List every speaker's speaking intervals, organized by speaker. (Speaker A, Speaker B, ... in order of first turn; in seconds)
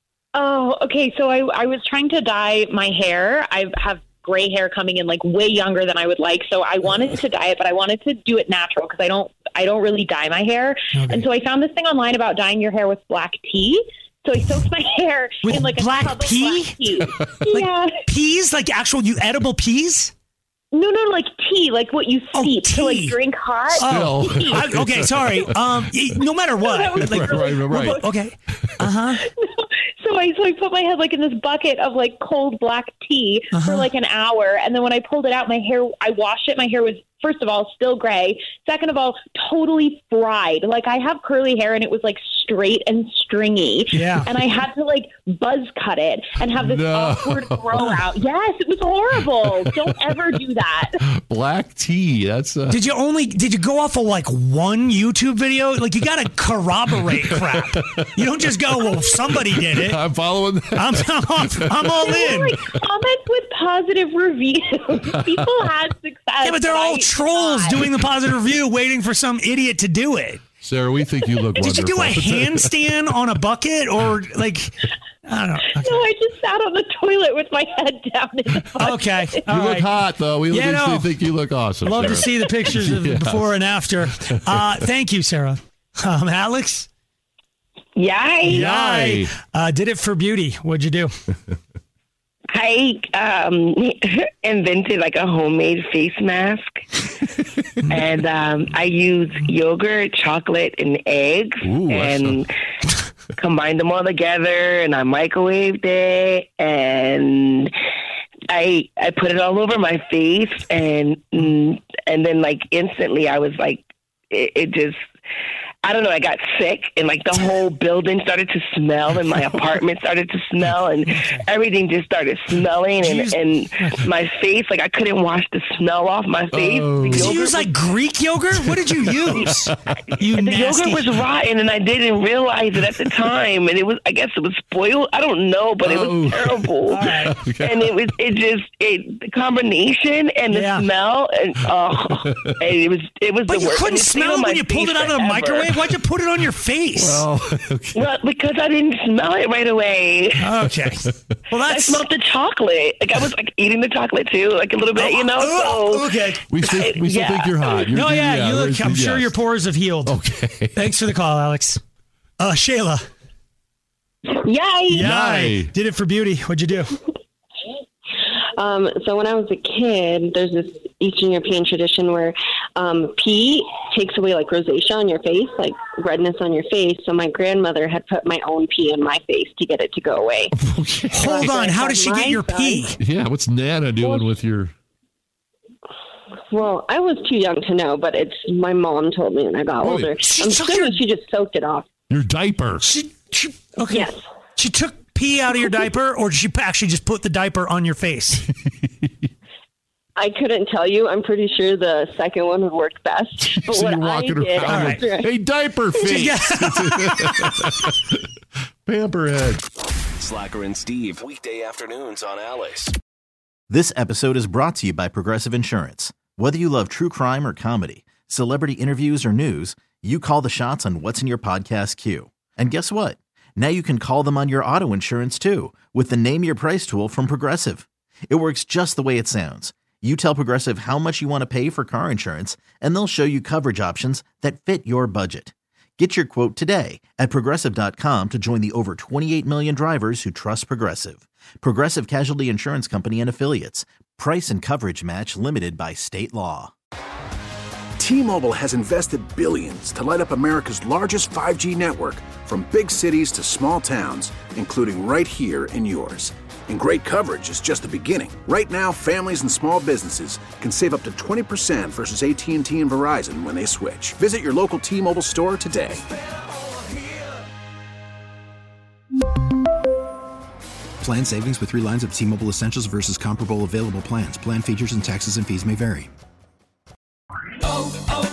Speaker A: 0.3-18.1, 20.7-24.6, 26.6-27.7, 29.3-51.0, 62.0-67.8, 75.6-79.5
Speaker B: 10.9-11.3, 15.4-17.0, 17.5-20.1, 22.3-29.3, 33.5-33.9, 43.9-44.5, 52.7-60.0, 60.7-62.6, 66.4-70.4, 71.3-76.1, 78.8-86.9, 88.4-91.1, 121.1-121.5, 122.9-124.0, 127.1-131.2, 136.9-137.4, 140.5-140.9, 143.4-147.3, 150.4-152.1, 154.9-156.6, 157.9-160.2, 160.7-161.8, 162.4-163.0, 164.9-167.0, 181.1-183.0, 190.2-191.0, 192.8-198.5, 204.7-205.0, 206.0-207.7
Speaker C: 17.0-17.5, 23.8-25.9, 27.0-28.7, 46.5-48.2, 49.1-52.8, 57.1-62.8, 65.0-65.8, 70.6-72.9, 79.5-83.5, 84.3-84.7, 88.5-89.3, 101.6-102.4, 126.5-127.3, 129.4-129.8, 135.9-138.1, 142.1-142.5, 147.0-148.1, 151.1-151.3, 156.5-159.4, 160.0-160.9, 165.0-165.7, 180.6-181.5, 183.0-184.7, 189.8-190.2, 192.1-192.9, 203.4-207.9, 208.9-209.6
Speaker D: 88.0-88.6, 92.5-97.0, 97.9-102.5, 103.3-107.7, 108.5-115.0, 115.8-127.8, 130.4-145.8, 147.9-150.4, 151.7-157.9
Speaker E: 164.3-165.0, 168.6-180.6, 181.2-183.0, 184.0-184.4, 186.5-191.9, 193.9-194.2, 200.2-205.4
Speaker F: 210.2-212.9
Speaker G: 213.7-246.7
Speaker H: 248.0-266.0
Speaker I: 271.0-276.1